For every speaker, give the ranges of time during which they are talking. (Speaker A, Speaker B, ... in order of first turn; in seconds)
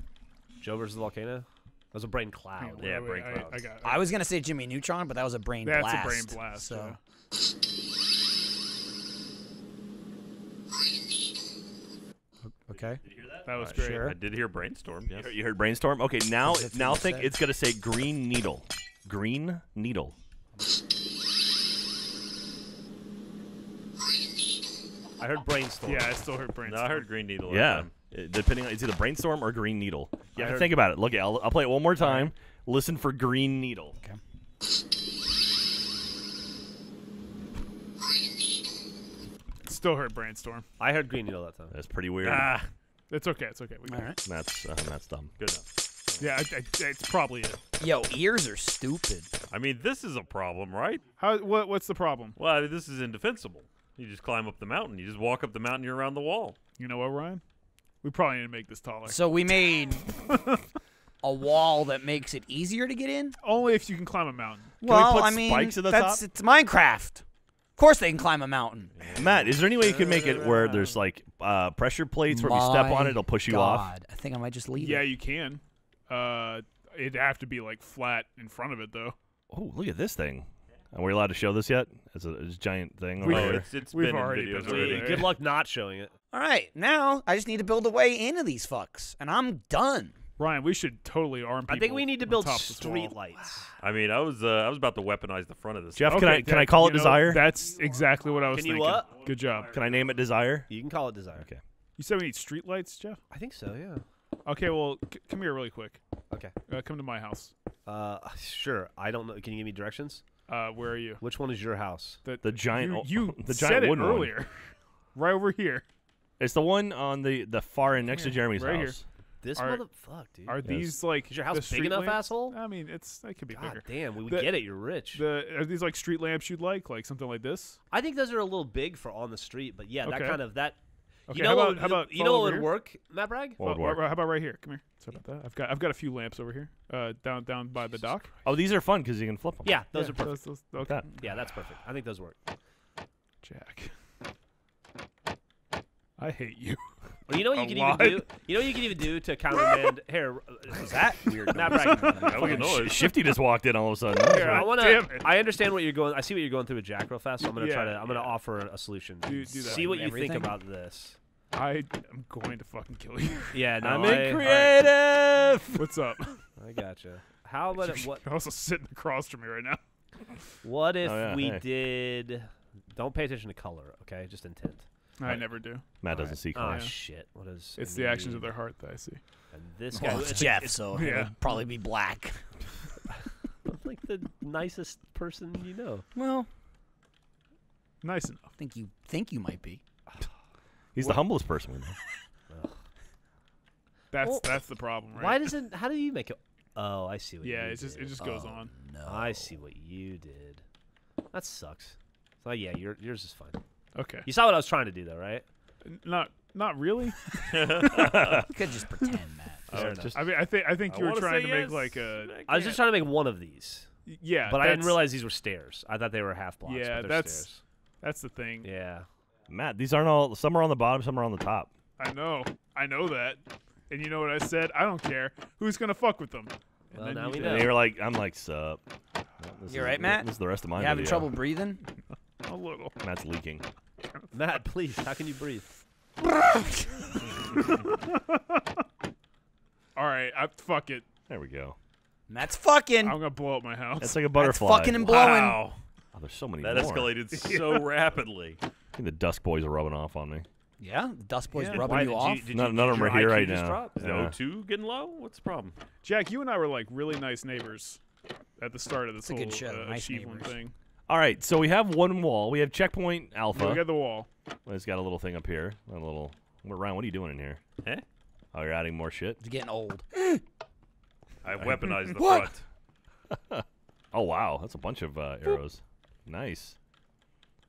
Speaker A: 0.6-3.0, 25.2-26.2, 30.4-30.7, 40.8-41.7, 70.0-70.4, 84.6-86.1, 91.7-93.7, 98.5-99.1, 100.7-101.5, 103.3-104.0, 107.8-110.2, 111.2-112.2, 119.4-120.7, 121.2-122.6, 123.5-125.2, 127.9-130.8, 131.3-133.6, 139.6-140.4, 141.1-142.3, 147.3-152.7, 154.3-161.2, 163.5-164.8, 166.6-168.2, 170.6-174.9, 176.2-178.5, 179.5-180.8, 183.6-186.1, 192.5-192.8, 194.2-194.6, 195.1-198.3, 199.0-200.6, 201.3-203.6, 204.2-205.4, 209.7-210.1, 212.5-213.9, 214.4-217.6, 218.6-219.1, 226.9-227.8, 234.3-235.7, 251.7-254.0
Speaker B: 2.6-4.1, 5.6-7.0, 13.4-14.1, 25.9-27.1, 32.0-32.3, 39.6-40.6, 42.2-44.1, 46.2-47.6, 51.2-52.4, 56.8-57.4, 58.0-60.6, 63.4-64.8, 74.8-79.1, 83.2-85.3, 90.4-93.1, 96.0-99.8, 102.0-103.2, 104.5-106.0, 106.7-107.5, 110.5-111.2, 112.2-115.8, 118.1-119.0, 119.5-119.8, 120.5-127.8, 130.0-130.4, 131.3-132.7, 133.6-138.4, 139.9-141.3, 143.4-143.9, 146.2-146.8, 147.4-148.3, 151.5-152.7, 154.2-155.3, 157.5-158.3, 159.2-160.5, 161.5-163.7, 165.8-166.4, 167.8-169.8, 175.2-176.9, 177.8-179.2, 180.9-181.4, 188.0-188.5, 194.1-195.5, 197.4-198.7, 203.9-204.3, 205.8-208.4, 210.1-212.4, 214.1-215.0, 216.6-217.5, 218.0-218.7, 222.0-227.7, 232.5-232.9, 237.7-238.6, 239.9-241.1, 243.0-244.2, 245.1-245.5, 247.3-247.9, 251.5-252.0, 256.0-258.0, 258.6-260.7, 263.5-264.3
Speaker C: 2.8-3.6, 13.6-15.3, 26.6-27.9, 45.4-46.2, 49.5-51.0, 52.4-56.6, 69.0-69.6, 83.2-85.3, 93.8-96.5, 152.1-153.1, 207.5-208.5, 209.7-212.8, 245.1-245.8, 246.6-248.6, 254.0-255.8, 271.4-272.6
Speaker D: 3.8-7.0, 12.6-13.0, 13.7-14.2, 16.4-17.3, 43.9-44.2, 47.8-49.3, 59.1-60.2, 61.2-63.4, 64.8-67.2, 67.8-68.9, 72.3-75.1, 86.3-90.2, 150.7-152.8, 159.6-160.5, 179.9-182.4, 186.1-186.5, 188.6-189.8, 198.2-199.5, 208.2-209.6, 229.7-231.8, 236.4-236.8, 242.3-243.2, 244.3-245.6, 250.8-252.4, 259.2-260.5, 269.4-270.4, 271.8-272.5
Speaker E: 15.1-20.1, 27.5-34.0, 41.7-42.5, 44.2-45.3, 64.8-66.2, 69.2-73.9, 79.5-83.6, 96.0-97.5, 99.7-100.7, 112.4-114.3, 116.4-119.0, 120.6-121.0, 133.6-134.1, 138.4-139.8, 152.5-154.8, 163.8-165.9, 171.0-171.6, 176.0-176.9, 190.9-191.9, 209.8-210.1, 219.5-221.7, 227.4-228.8, 229.4-231.3, 233.0-233.6, 241.3-241.8, 244.0-245.3, 246.1-247.1, 248.9-250.4, 252.5-254.3, 261.1-263.9, 264.6-267.6, 268.5-269.4, 273.3-276.8